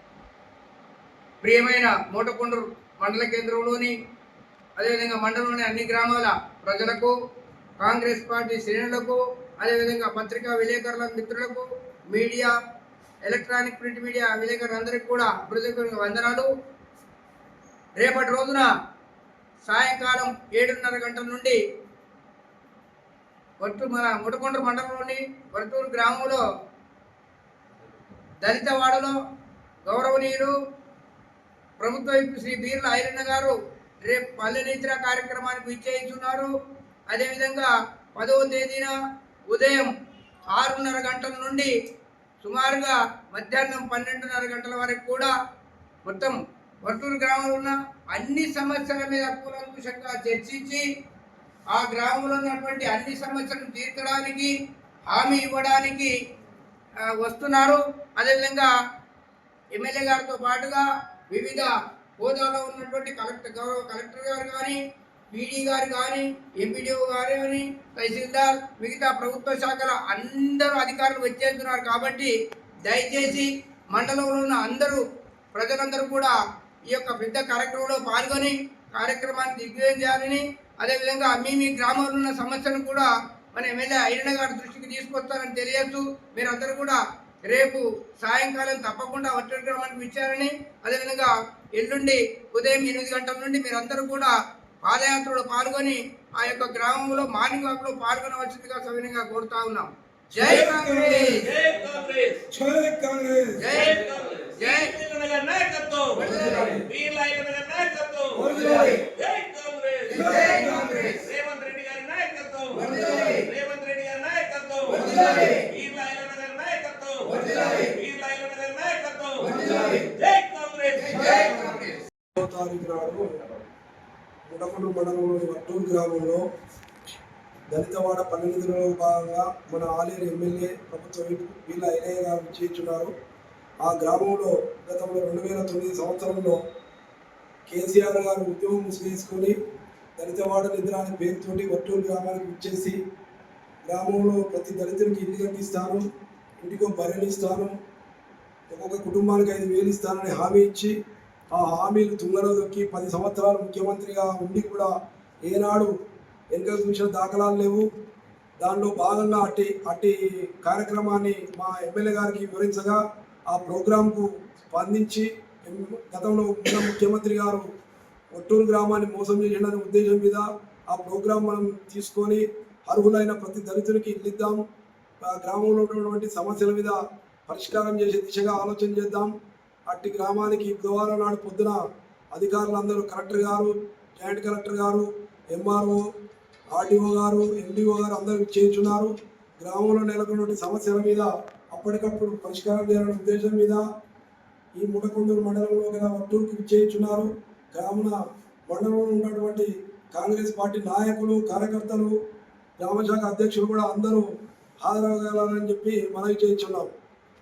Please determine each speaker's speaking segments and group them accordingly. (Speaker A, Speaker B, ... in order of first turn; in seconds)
Speaker A: 1.4-4.0, 4.8-7.2, 7.8-12.5, 13.2-16.5, 18.0-18.7, 19.6-21.6, 23.6-26.4, 28.4-29.2, 29.9-30.5, 31.8-36.5, 37.1-38.9, 39.5-39.9, 40.5-41.7, 42.4-45.3, 46.0-50.9, 51.7-54.5, 55.1-56.1, 57.0-58.7, 59.7-64.8, 65.3-72.3, 72.8-75.0, 75.5-76.3, 76.9-101.5, 103.6-104.0, 104.6-104.9, 106.2-106.8, 110.3-110.9
Speaker B: 100.4-102.4, 103.7-121.8
Speaker C: 100.4-101.4, 102.5-103.7, 106.3-106.8, 108.3-109.0, 110.1-111.1, 112.8-113.2, 115.0-115.4, 119.5-119.9, 122.3-123.6, 124.5-126.4, 127.7-133.1, 133.8-136.6, 137.7-139.6, 140.2-143.0, 143.8-146.1, 146.6-147.8, 148.7-150.9, 151.5-154.9, 155.4-155.9, 156.5-157.9, 158.6-167.7, 168.3-174.6, 175.2-179.3, 179.9-186.1, 186.7-193.8, 194.8-202.2, 202.8-206.9